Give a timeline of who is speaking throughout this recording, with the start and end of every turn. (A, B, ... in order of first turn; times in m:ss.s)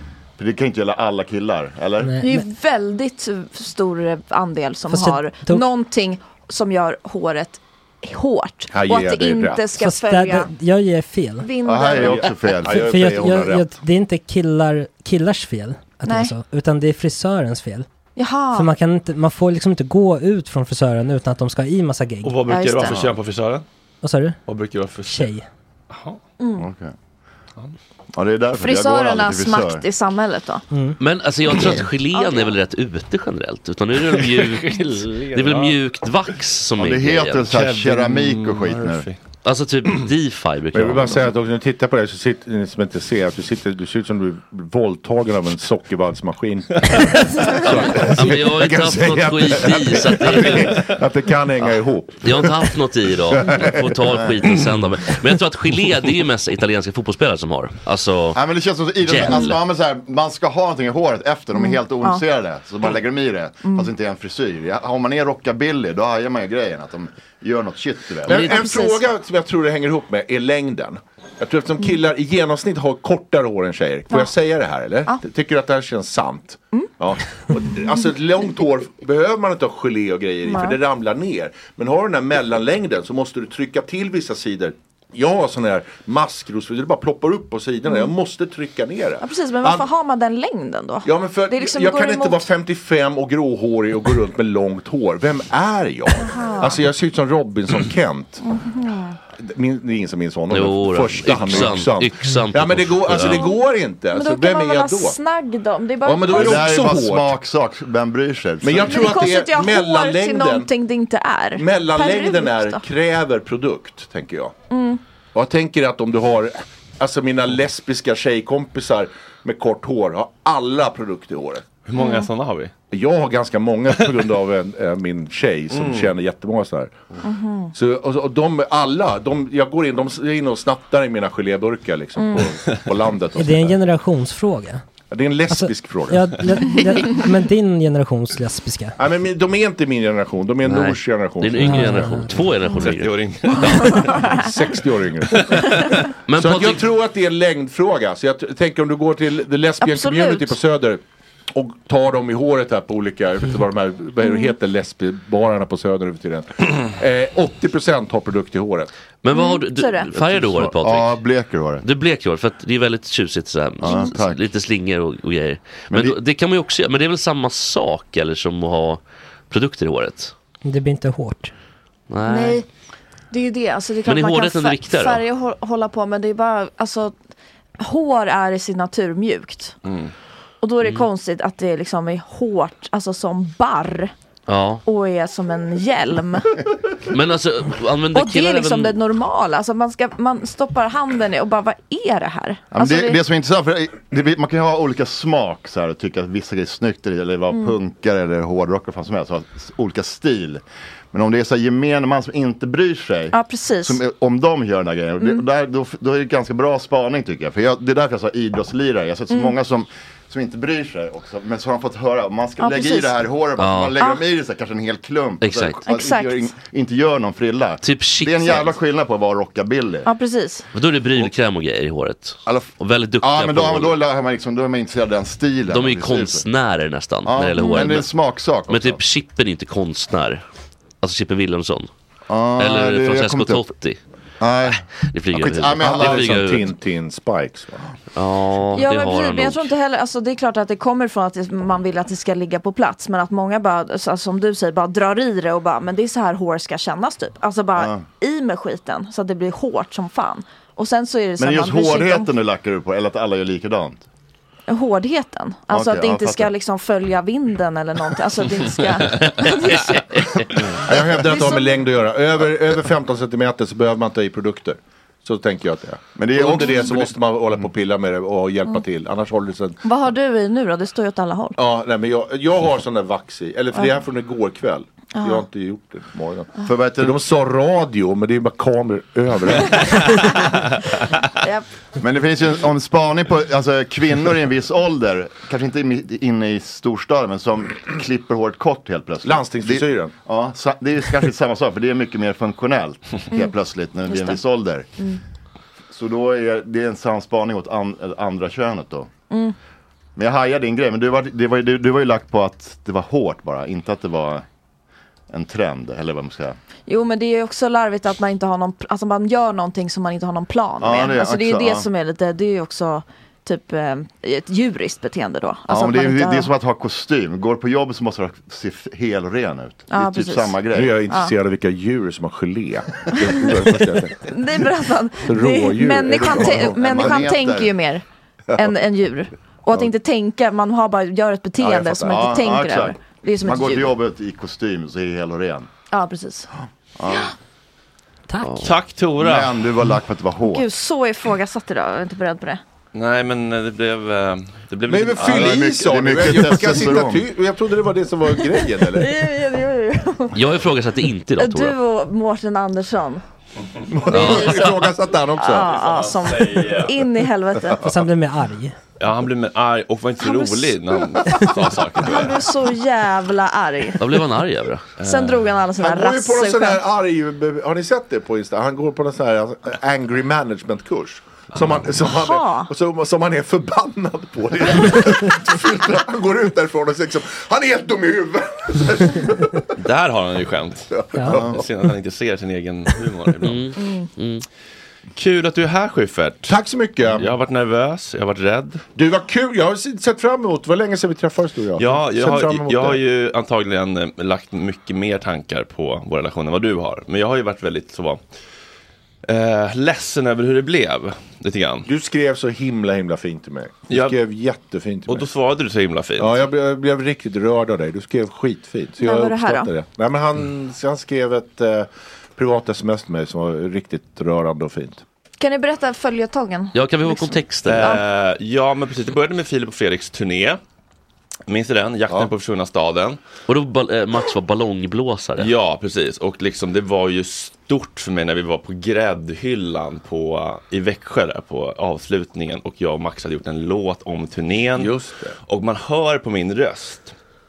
0:00.4-0:02.2 A
0:02.0-0:02.4 B
0:02.2-0:10.5 C
0:04.9-0:05.6 B
0:08.7-0:09.7 D
0:09.8-0:11.4 B
0:11.4-0:12.3 C
0:11.6-0:12.9 A
0:12.1-0:13.7 D
0:12.7-0:17.8 B
0:16.0-0:16.3 C
0:18.2-0:18.7 C
0:18.5-0:22.4 B
0:22.2-0:23.6 E
0:22.5-0:23.0 C
0:24.0-0:24.4 B
0:24.4-0:25.3 E
0:25.1-0:25.4 B
0:25.9-0:26.2 E
0:26.4-0:26.7 C
0:26.6-0:26.9 A
0:28.1-0:29.8 A
0:28.5-0:30.6 C
0:31.0-0:37.5 F
0:32.1-0:32.6 C
0:34.2-0:35.8 E
0:36.8-0:39.1 A
0:37.4-0:39.2 E
0:39.4-0:41.3 F
0:40.7-0:52.7 D
0:47.6-0:50.8 F
0:52.2-0:58.4 F
0:53.3-0:53.7 D
0:58.3-1:08.5 A
0:59.0-0:59.6 F
1:01.5-1:02.2 C
1:03.6-1:03.9 C
1:08.3-1:29.9 D
1:08.3-1:09.0 C
1:20.4-1:20.8 C
1:27.8-1:28.1 C
1:29.2-1:32.5 C
1:31.0-1:38.4 D
1:36.1-1:36.8 C
1:38.4-1:39.2 C
1:39.4-1:45.2 D
1:40.5-1:43.6 F
1:43.3-1:46.9 C
1:46.0-1:47.3 D
1:46.3-1:48.9 A
1:48.6-1:50.7 D
1:48.8-1:52.8 C
1:51.6-1:54.5 D
1:54.7-1:55.0 C
1:55.3-2:01.7 D
2:01.8-2:02.7 E
2:02.0-2:02.3 C
2:02.9-2:07.0 D
2:05.7-2:06.1 E
2:07.2-2:07.7 C
2:07.7-2:13.8 D
2:12.2-2:12.5 C
2:13.4-2:14.8 B
2:15.1-2:16.3 D
2:15.5-2:18.9 B
2:19.0-2:21.6 D
2:20.6-2:24.0 F
2:21.6-2:22.3 B
2:22.7-2:24.3 E
2:23.9-2:24.2 C
2:24.3-2:25.4 D
2:25.3-2:26.0 E
2:26.3-2:26.8 F
2:26.3-2:31.0 D
2:29.8-2:30.6 C
2:31.5-2:38.9 D
2:34.2-2:34.5 C
2:39.2-2:41.2 F
2:39.3-2:40.1 C
2:40.2-2:41.8 A
2:41.8-2:50.3 F
2:43.8-2:44.4 A
2:43.8-2:44.2 C
2:45.9-2:46.2 A
2:50.6-2:51.5 B
2:52.1-2:52.6 F
2:52.2-2:52.6 C
2:53.3-2:57.1 C
2:54.0-2:55.2 F
2:57.8-2:59.8 C
2:59.8-3:00.1 E
3:00.6-3:04.1 C
3:04.5-3:04.8 F
3:04.8-3:06.5 C
3:07.1-3:09.0 F
3:08.1-3:13.2 C
3:12.7-3:40.1 A
3:17.5-3:17.8 C
3:23.3-3:24.0 C
3:25.2-3:25.4 C
3:29.3-3:29.6 C
3:32.6-3:33.3 C
3:33.6-3:34.0 F
3:34.0-3:34.2 C
3:35.4-3:35.9 F
3:35.8-3:36.5 C
3:37.8-3:38.8 F
3:40.0-3:40.6 C
3:40.7-3:44.0 F
3:42.4-3:46.4 A
3:45.7-3:48.1 F
3:47.2-3:49.0 A
3:47.6-3:48.0 C
3:48.7-3:50.4 F
3:51.0-3:51.9 F
3:52.3-3:53.7 A
3:52.6-3:54.0 F
3:54.4-3:56.4 A
3:55.0-3:56.7 F
3:55.8-3:57.8 D
3:58.1-3:59.7 F
3:58.7-4:12.3 C
4:07.8-4:08.0 A
4:11.4-4:14.0 A
4:14.7-4:20.3 C
4:15.7-4:16.5 A
4:20.8-4:29.8 D
4:21.2-4:21.8 C
4:26.2-4:27.1 A
4:26.6-4:26.9 C
4:29.8-4:31.6 C
4:31.6-4:40.0 D
4:35.1-4:35.4 C
4:36.6-4:37.1 A
4:39.8-4:40.1 E
4:42.0-4:54.9 A
4:49.2-4:50.1 D
4:54.0-4:54.4 C
4:55.9-4:59.1 A
5:00.2-5:04.4 A
5:05.3-5:06.6 A
5:06.9-5:16.5 C
5:10.8-5:11.9 A
5:15.7-5:21.0 A
5:19.9-5:21.3 C
5:20.7-5:24.2 D
5:23.1-5:23.5 C
5:24.2-5:28.0 C
5:25.2-5:27.2 D
5:26.2-5:27.7 A
5:28.5-5:34.0 C
5:31.6-5:32.3 D
5:32.1-5:35.7 A
5:35.9-5:36.5 C
5:37.0-5:37.3 A
5:38.4-5:38.7 F
5:38.6-5:39.6 E
5:39.2-5:40.6 A
5:40.4-5:42.6 C
5:42.9-5:45.6 E
5:44.9-5:49.1 D
5:45.2-5:47.2 A
5:48.3-5:50.4 C
5:50.3-5:51.8 F
5:51.4-5:53.2 C
5:53.9-5:55.7 D
5:54.1-5:54.7 F
5:54.2-5:54.7 C
5:55.4-5:57.8 C
5:55.7-5:56.9 E
5:57.8-5:58.8 B
5:59.0-6:02.5 E
6:00.2-6:00.8 C
6:02.0-6:04.0 C
6:04.0-6:04.9 F
6:05.0-6:05.5 E
6:05.0-6:06.8 C
6:05.8-6:19.6 D
6:12.2-6:12.7 C
6:19.8-6:23.7 E
6:20.9-6:21.6 D
6:23.4-6:24.4 F
6:23.8-6:24.1 C
6:25.1-6:26.5 E
6:26.5-6:27.3 D
6:27.1-6:28.8 E
6:29.0-6:33.0 D
6:31.8-6:38.2 E
6:39.2-6:41.9 E
6:41.9-6:45.2 D
6:43.9-6:44.2 E
6:45.1-6:46.4 E
6:46.2-6:55.0 D
6:49.0-6:49.7 C
6:55.4-6:58.0 C
6:56.7-6:58.0 F
6:57.6-7:00.6 E
7:01.5-7:03.2 E
7:03.5-7:05.5 F
7:05.4-7:17.1 E
7:14.8-7:15.4 D